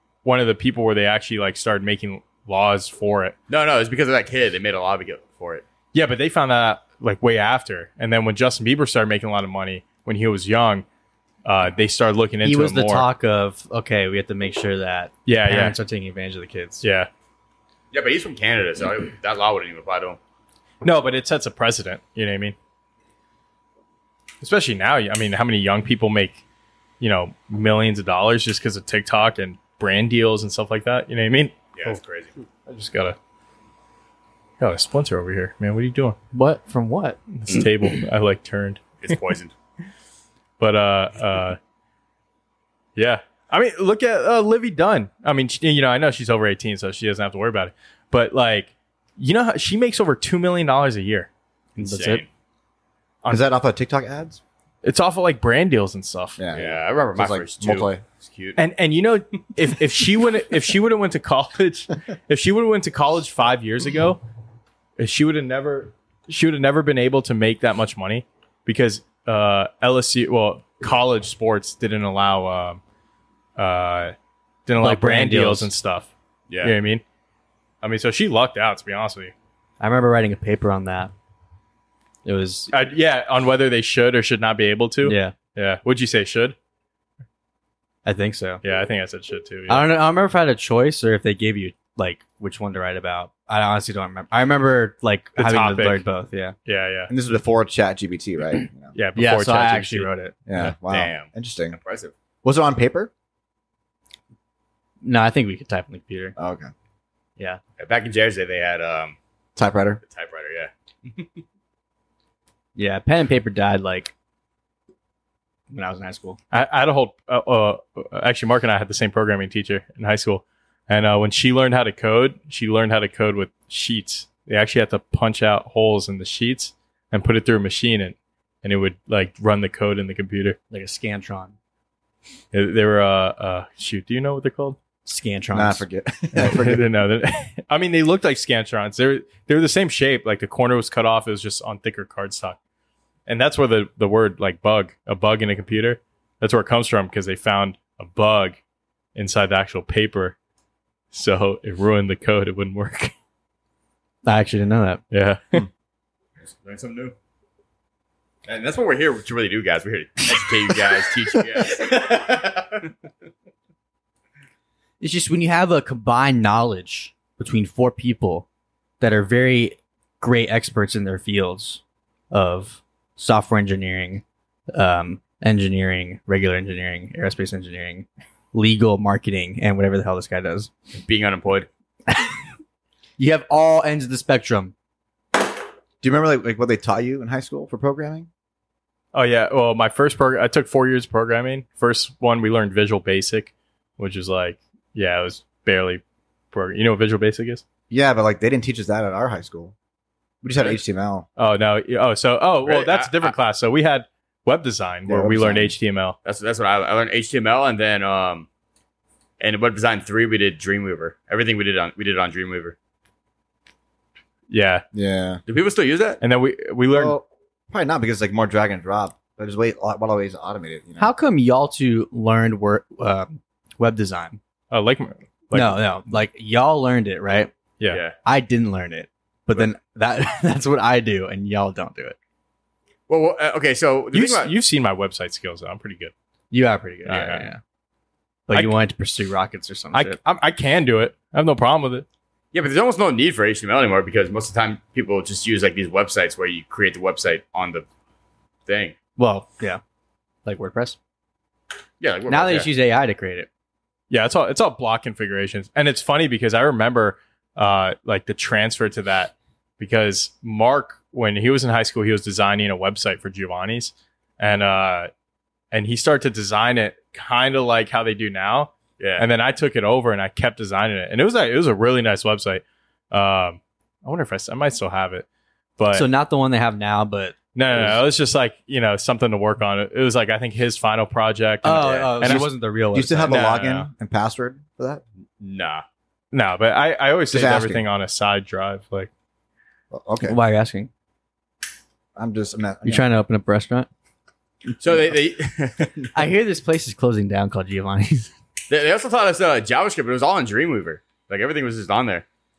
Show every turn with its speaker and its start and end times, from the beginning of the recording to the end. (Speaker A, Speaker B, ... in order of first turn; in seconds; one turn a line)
Speaker A: 0.2-3.4
Speaker B: 3.5-5.6
Speaker A: 5.9-10.8
Speaker A: 11.4-13.1
Speaker C: 12.4-16.8
Speaker A: 15.3-15.7
Speaker A: 16.8-17.1
Speaker B: 17.9-20.2
Speaker A: 20.8-22.6
Speaker A: 24.4-26.4
Speaker A: 27.0-31.9
Speaker B: 31.8-32.3
Speaker A: 32.6-33.1
Speaker A: 34.6-36.2
Speaker C: 36.3-37.2
Speaker A: 37.3-39.2
Speaker B: 39.0-39.5
Speaker A: 40.6-41.6
Speaker A: 43.0-51.3
Speaker B: 51.8-52.3
Speaker A: 51.8-52.1
Speaker C: 51.9-52.2
Speaker D: 53.3-54.4
Speaker A: 54.8-56.4
Speaker D: 56.4-58.0
Speaker B: 56.5-58.6
Speaker A: 58.5-64.2
Speaker A: 65.0-72.8
Speaker A: 73.6-74.1
Speaker A: 74.7-76.1
Speaker C: 74.8-75.7
Speaker A: 76.6-77.0
Speaker A: 77.8-79.3
Speaker C: 79.8-81.1
Speaker C: 82.2-82.7
Speaker A: 82.7-86.5
Speaker C: 85.0-85.3
Speaker C: 88.0-88.6
Speaker A: 88.6-89.9
Speaker C: 89.7-96.5
Speaker A: 95.4-96.0
Speaker A: 96.7-97.1
Speaker D: 97.1-98.9
Speaker A: 98.9-100.1
Speaker C: 99.2-100.3
Speaker D: 100.5-101.8
Speaker B: 100.6-102.1
Speaker D: 102.4-103.1
Speaker C: 105.0-106.3
Speaker D: 106.4-106.7
Speaker B: 107.8-109.2
Speaker D: 109.5-110.0
Speaker B: 110.0-111.4
Speaker C: 112.8-114.1
Speaker C: 115.7-116.4
Speaker A: 116.5-130.6
Speaker C: 130.7-131.5
Speaker A: 132.5-134.8
Speaker C: 135.0-135.8
Speaker D: 135.5-136.8
Speaker A: 136.3-142.6
Speaker A: 143.3-148.6
Speaker A: 149.1-150.3
Speaker A: 151.1-153.1
Speaker C: 154.2-155.0
Speaker A: 155.1-155.7
Speaker B: 156.4-157.1
Speaker B: 158.4-162.7
Speaker C: 160.7-161.1
Speaker C: 161.7-162.5
Speaker C: 165.0-168.4
Speaker C: 169.0-180.7
Speaker B: 180.9-181.7
Speaker C: 183.2-184.7
Speaker D: 186.0-188.3
Speaker A: 189.1-196.0
Speaker A: 196.5-197.6
Speaker D: 197.9-199.7
Speaker D: 200.4-201.2
Speaker A: 201.4-206.2
Speaker B: 202.6-203.3
Speaker D: 205.1-205.7
Speaker B: 206.2-208.5
Speaker B: 209.4-212.8
Speaker A: 214.5-214.8
Speaker D: 214.9-215.4
Speaker B: 215.5-216.2
Speaker A: 216.2-217.2
Speaker D: 216.9-221.1
Speaker C: 221.0-224.4
Speaker A: 224.7-225.8
Speaker C: 225.5-227.5
Speaker B: 227.9-228.1
Speaker C: 228.2-232.2
Speaker B: 233.1-234.5
Speaker A: 234.1-236.1
Speaker C: 236.5-237.6
Speaker A: 237.1-237.5
Speaker C: 238.5-240.2
Speaker A: 239.9-242.0
Speaker B: 242.5-247.8
Speaker B: 248.7-248.9
Speaker C: 249.2-249.8
Speaker C: 250.4-251.0
Speaker B: 252.0-252.7
Speaker C: 252.3-253.5
Speaker A: 254.1-265.1
Speaker A: 265.7-275.2
Speaker B: 269.0-269.2
Speaker A: 275.8-276.1
Speaker C: 275.9-278.0
Speaker A: 277.5-282.5
Speaker C: 281.6-283.3
Speaker D: 282.9-285.0
Speaker A: 283.2-283.9
Speaker B: 285.4-285.8
Speaker A: 286.3-289.1
Speaker D: 287.3-287.8
Speaker D: 289.9-290.4
Speaker C: 290.2-290.9
Speaker D: 292.1-293.1
Speaker C: 292.8-293.9
Speaker B: 294.8-296.1
Speaker C: 296.1-298.3
Speaker B: 298.7-302.2